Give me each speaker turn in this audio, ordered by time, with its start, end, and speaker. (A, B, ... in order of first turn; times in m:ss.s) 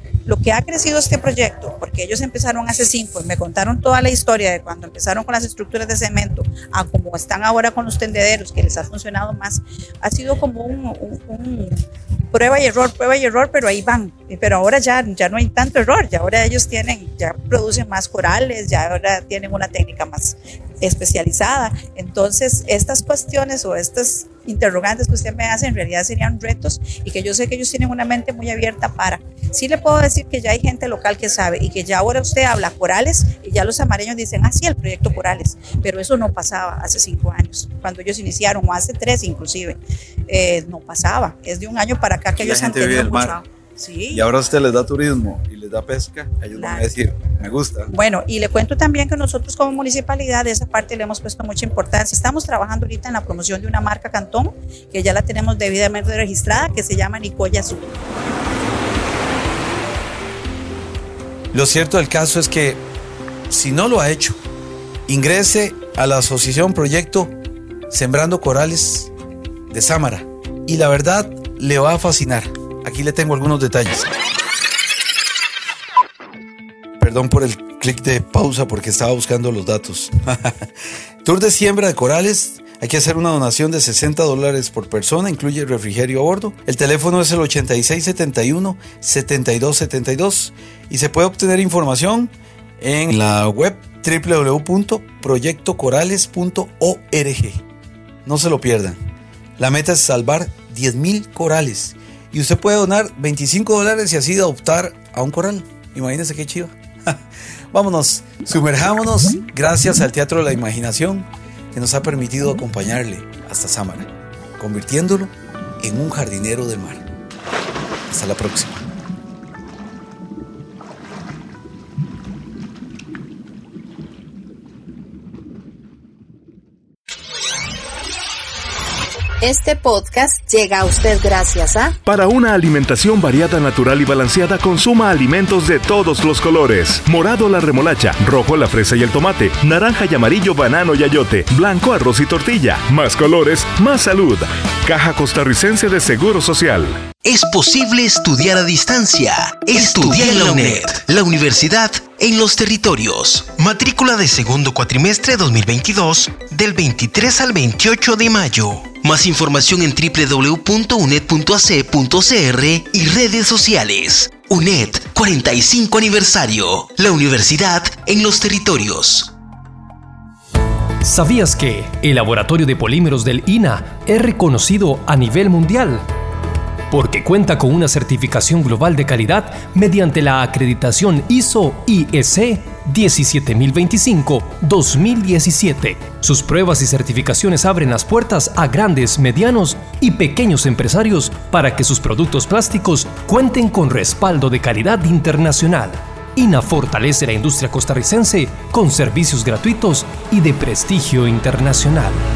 0:00.2-0:44.3 A
0:42.4-0:43.4 B
0:44.1-0:47.9 B
0:46.5-0:46.9 A
0:47.9-0:57.9 A
1:01.5-1:02.8 B
1:03.5-1:04.4 B
1:05.1-1:07.4 B
1:07.9-1:09.1 B
1:09.7-1:14.1 B
1:17.0-1:20.7 B
1:21.2-1:37.6 B
1:38.2-1:39.0 B
1:39.6-1:57.1 B
1:58.1-1:58.8 B
2:09.4-2:12.0 C
2:12.1-2:27.0 D
2:27.2-2:49.3 E
2:51.0-2:56.1 F
2:56.9-3:22.2 F